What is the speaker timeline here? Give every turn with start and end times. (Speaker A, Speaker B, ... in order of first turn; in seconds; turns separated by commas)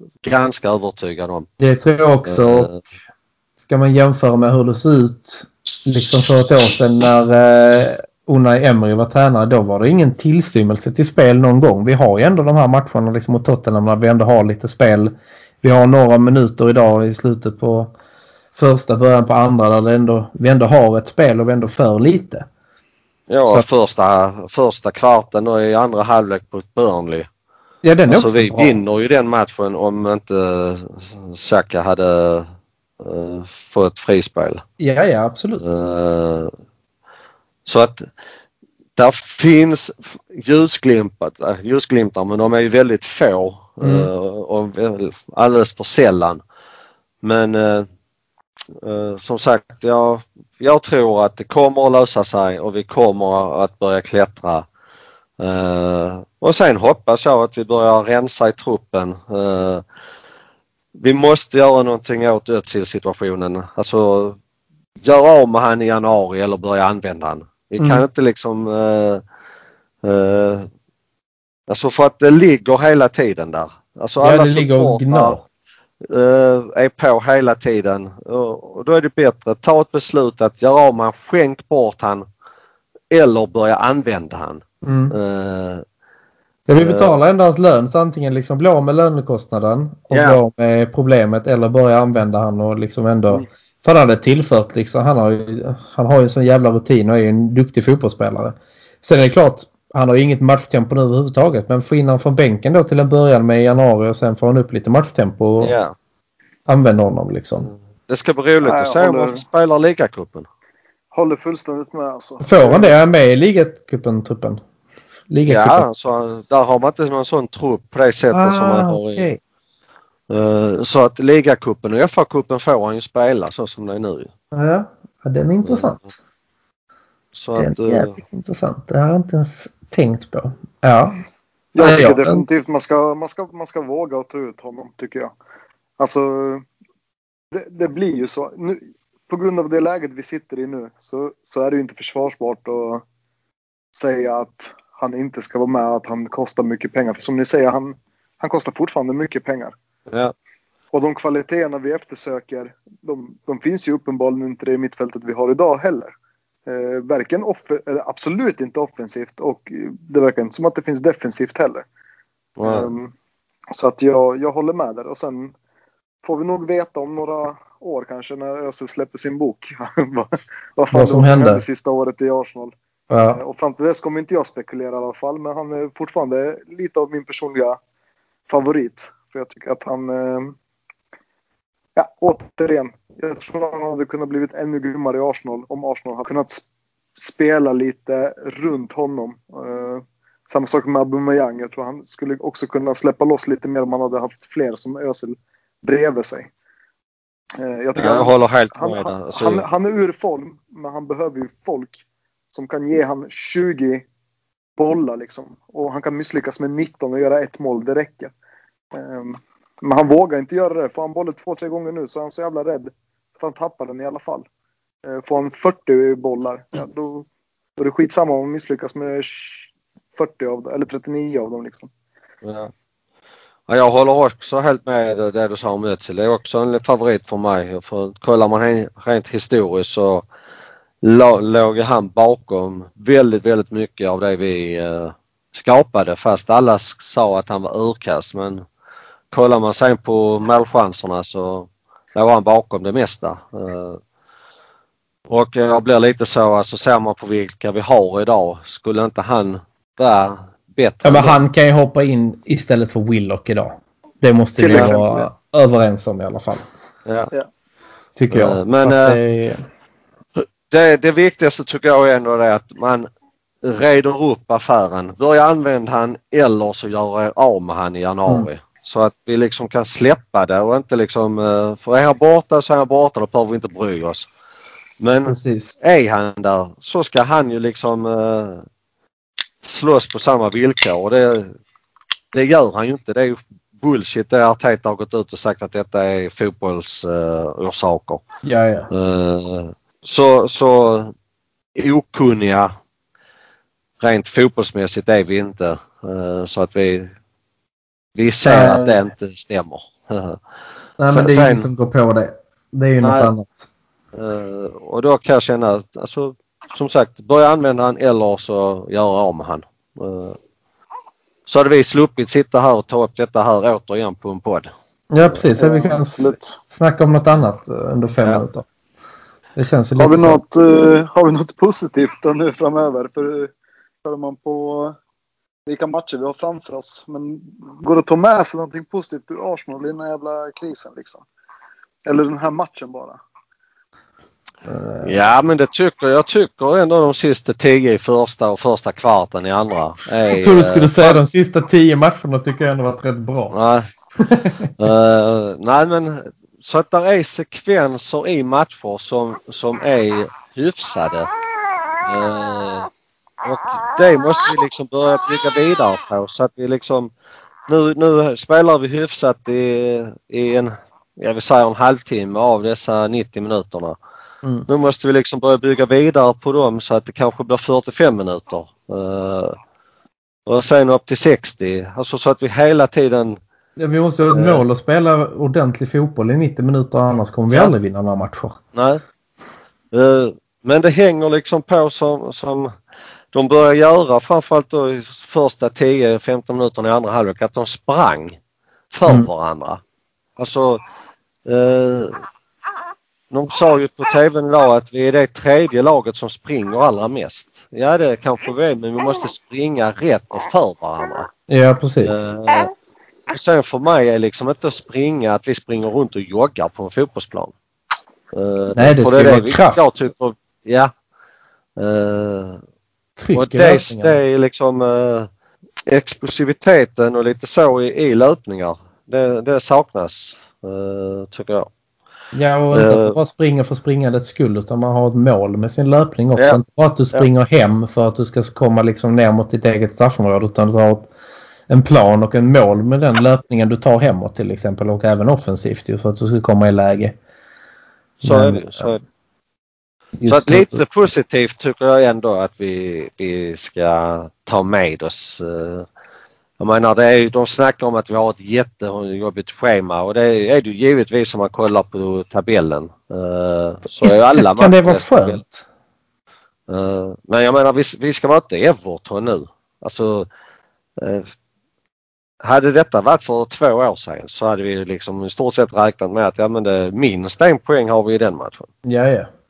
Speaker A: 0.2-1.5, Speaker B: 1.6-2.7, Speaker A: 2.2-2.8, Speaker B: 3.6-17.9, Speaker B: 18.5-22.5, Speaker A: 23.3-27.3, Speaker B: 27.8-28.8, Speaker A: 28.1-34.6, Speaker B: 34.8-35.7, Speaker A: 35.6-36.5, Speaker A: 37.6-38.1, Speaker A: 39.0-46.4, Speaker B: 43.8-44.1, Speaker A: 47.2-47.9, Speaker A: 48.8-54.6, Speaker A: 55.4-59.8, Speaker A: 61.0-64.4, Speaker A: 65.0-69.2, Speaker B: 67.8-68.0, Speaker A: 70.0-70.7, Speaker A: 71.7-75.4, Speaker B: 74.2-75.4, Speaker A: 76.1-82.2, Speaker A: 83.1-85.8, Speaker B: 84.8-85.2, Speaker B: 86.7-105.7, Speaker A: 86.8-87.1, Speaker A: 90.1-90.4, Speaker A: 105.6-105.9, Speaker B: 106.7-107.7, Speaker A: 107.7-110.5, Speaker C: 108.6-109.4, Speaker C: 111.1-113.0, Speaker B: 112.4-114.6, Speaker B: 115.3-115.9, Speaker A: 115.5-119.3, Speaker B: 118.3-119.4, Speaker A: 120.3-124.3, Speaker B: 124.5-126.1, Speaker A: 125.6-126.0, Speaker A: 127.3-128.1, Speaker B: 127.6-131.2, Speaker C: 131.7-135.3, Speaker B: 131.8-132.4, Speaker C: 136.0-136.7, Speaker C: 137.5-143.0, Speaker C: 143.9-149.7, Speaker A: 150.1-150.3, Speaker C: 150.9-156.1, Speaker C: 156.7-161.8, Speaker A: 162.6-162.9, Speaker C: 162.6-163.1, Speaker C: 163.7-165.5, Speaker C: 166.2-172.7, Speaker B: 170.9-171.6, Speaker B: 173.1-173.4, Speaker C: 173.3-177.8, Speaker C: 178.5-180.6, Speaker C: 181.9-186.7, Speaker C: 187.2-196.5, Speaker C: 197.6-204.1, Speaker A: 197.9-199.6, Speaker C: 204.8-208.3, Speaker C: 208.9-214.4, Speaker C: 215.1-221.9, Speaker A: 222.4-222.7, Speaker A: 223.7-230.2, Speaker A: 231.0-238.6, Speaker A: 239.3-244.0, Speaker A: 245.3-251.4, Speaker B: 251.0-256.6, Speaker C: 254.6-255.3, Speaker B: 258.1-259.6, Speaker A: 258.3-259.2, Speaker A: 260.4-263.1, Speaker A: 263.6-274.3, Speaker A: 275.0-278.6, Speaker B: 275.2-275.8, Speaker A: 279.6-281.5, Speaker A: 282.3-288.2, Speaker B: 288.4-288.9, Speaker A: 288.9-291.1, Speaker A: 291.7-292.7, Speaker A: 294.0-297.1, Speaker A: 298.1-300.4, Speaker B: 298.4-299.0, Speaker B: 301.0-303.7, Speaker A: 301.1-301.7, Speaker A: 303.0-303.3, Speaker A: 304.1-310.4, Speaker A: 311.5-314.7, Speaker B: 315.1-318.6, Speaker C: 315.6-316.6, Speaker B: 319.6-320.4, Speaker C: 320.0-323.5, Speaker C: 324.0-325.0, Speaker C: 325.7-331.2, Speaker C: 332.1-333.2, Speaker B: 334.6-335.1, Speaker A: 335.0-341.2, Speaker B: 340.3-343.5, Speaker A: 343.5-343.9, Speaker B: 344.2-344.7, Speaker A: 344.8-351.3, Speaker A: 352.0-352.9, Speaker A: 353.4-357.1, Speaker A: 357.7-364.0, Speaker B: 364.4-364.7, Speaker A: 364.7-369.6, Speaker A: 370.4-373.4, Speaker B: 373.8-378.6, Speaker A: 374.3-374.6, Speaker A: 378.7-379.0, Speaker A: 379.9-382.7, Speaker A: 383.3-388.4, Speaker A: 388.9-389.8, Speaker A: 390.4-390.8, Speaker A: 391.4-392.2, Speaker A: 393.3-401.3, Speaker B: 401.5-402.2, Speaker A: 402.0-402.7, Speaker A: 403.3-407.5, Speaker A: 408.3-410.9, Speaker B: 408.7-409.9, Speaker A: 411.8-412.6, Speaker B: 413.2-414.2, Speaker A: 413.3-415.3, Speaker A: 415.9-421.7, Speaker B: 422.3-431.1, Speaker A: 422.7-423.1, Speaker B: 431.7-437.2, Speaker A: 438.2-439.0, Speaker B: 438.2-439.0, Speaker B: 440.2-440.8, Speaker A: 440.3-445.9, Speaker A: 446.6-455.4, Speaker B: 454.0-455.6, Speaker A: 456.7-460.3, Speaker A: 461.0-461.3, Speaker A: 462.4-468.7, Speaker B: 468.8-469.3